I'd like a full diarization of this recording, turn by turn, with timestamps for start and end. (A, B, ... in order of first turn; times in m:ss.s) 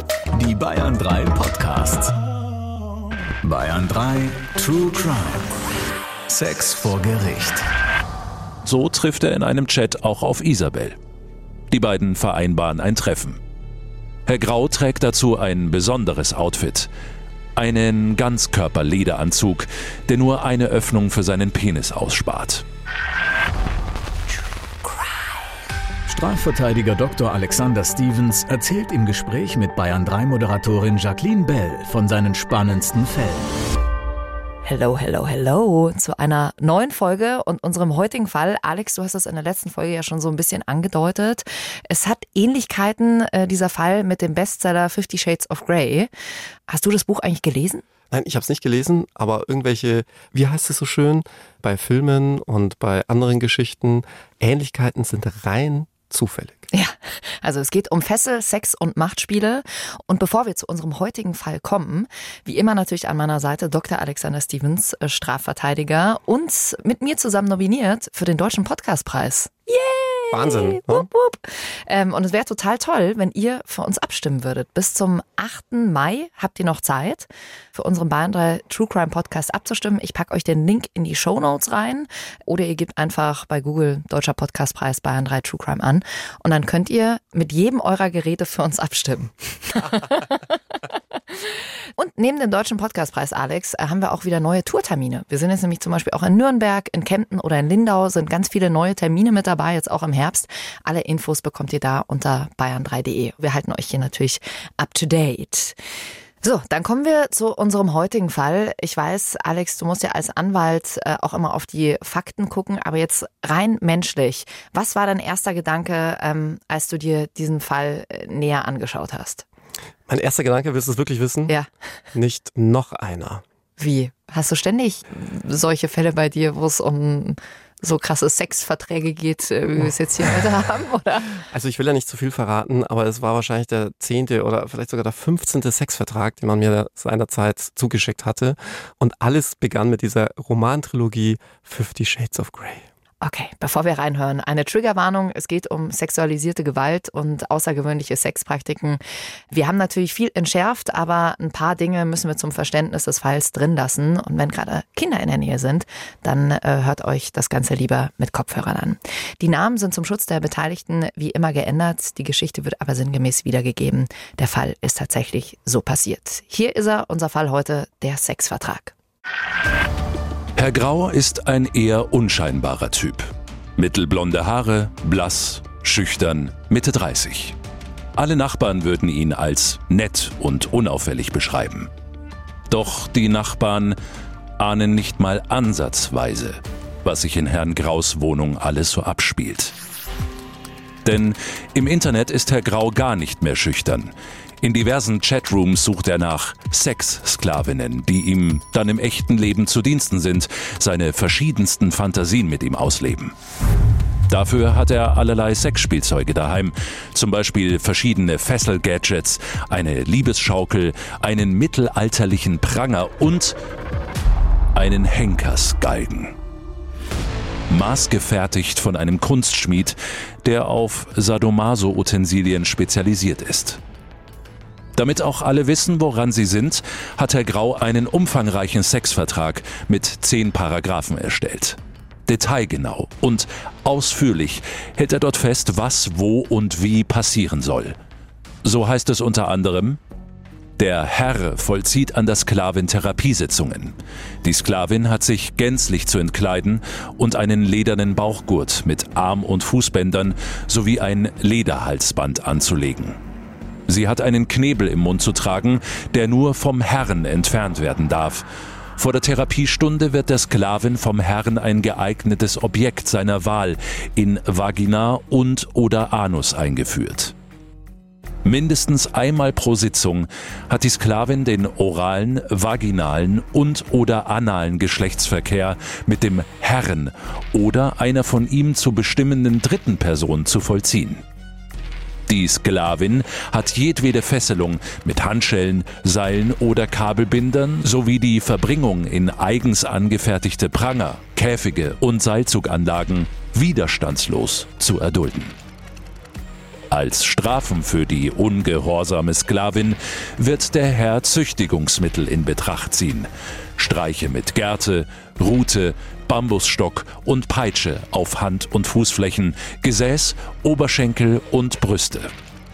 0:00.3-0:02.1 A
0:03.4-0:05.6 A
0:06.3-0:07.7 A
0:08.6-0:11.0 B
0:11.7-0:13.4 B
0:14.3-0:16.9 B
0:17.6-0:22.6 B
0:26.1-0:33.5 A
0:34.6-0:46.1 C
0:46.7-0:47.8 C
0:48.1-0:56.7 D
0:56.7-1:45.8 C
1:10.3-1:11.1 D
1:46.4-1:59.4 C
2:00.1-2:01.6 D
2:02.1-2:03.4 D
2:03.8-2:11.4 C
2:11.5-2:22.9 D
2:23.2-2:48.9 C
2:50.6-2:57.6 B
2:58.2-3:01.9 B
3:02.7-3:04.0 B
3:04.6-3:09.7 B
3:11.0-3:23.3 B
3:24.3-3:33.6 B
3:34.7-3:36.4 B
3:37.7-3:43.8 B
3:45.0-3:58.0 B
3:58.6-4:00.0 B
4:00.8-4:13.2 B
4:13.9-4:18.5 B
4:19.0-4:27.3 B
4:28.4-4:41.2 B
4:42.3-4:55.6 B
4:56.9-5:12.3 B